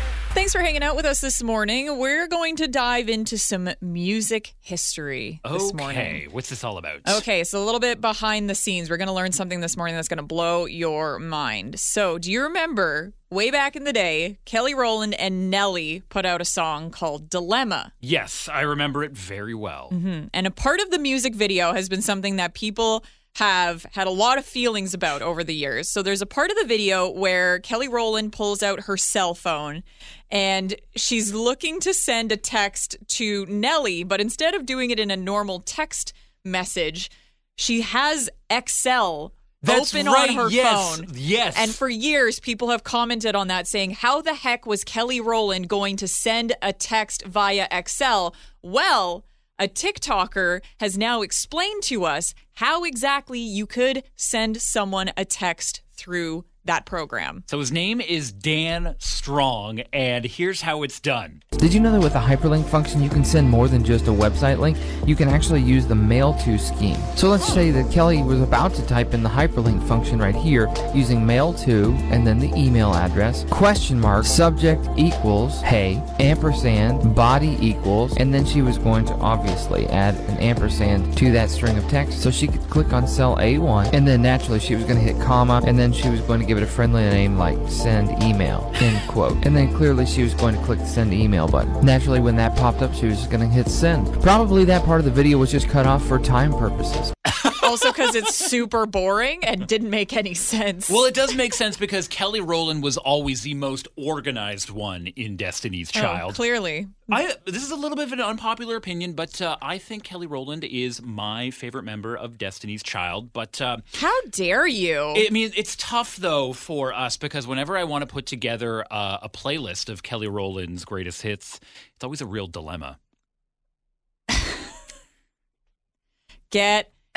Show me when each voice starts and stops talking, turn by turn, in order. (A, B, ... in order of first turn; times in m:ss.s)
0:00.3-0:06.2 A
0:05.4-0:07.2 B
0:07.0-0:17.9 A
0:18.0-0:19.9 B
0:19.9-0:57.4 A
0:39.6-0:41.8 B
0:57.5-1:01.4 B
1:01.6-1:37.1 C
1:37.4-1:38.3 B
1:37.6-1:41.0 A
1:40.9-1:46.4 B
1:45.9-1:47.2 A
1:47.1-1:53.8 B
1:54.0-1:55.2 A
1:55.1-2:03.0 B
2:04.3-2:04.6 A
2:06.5-2:06.9 A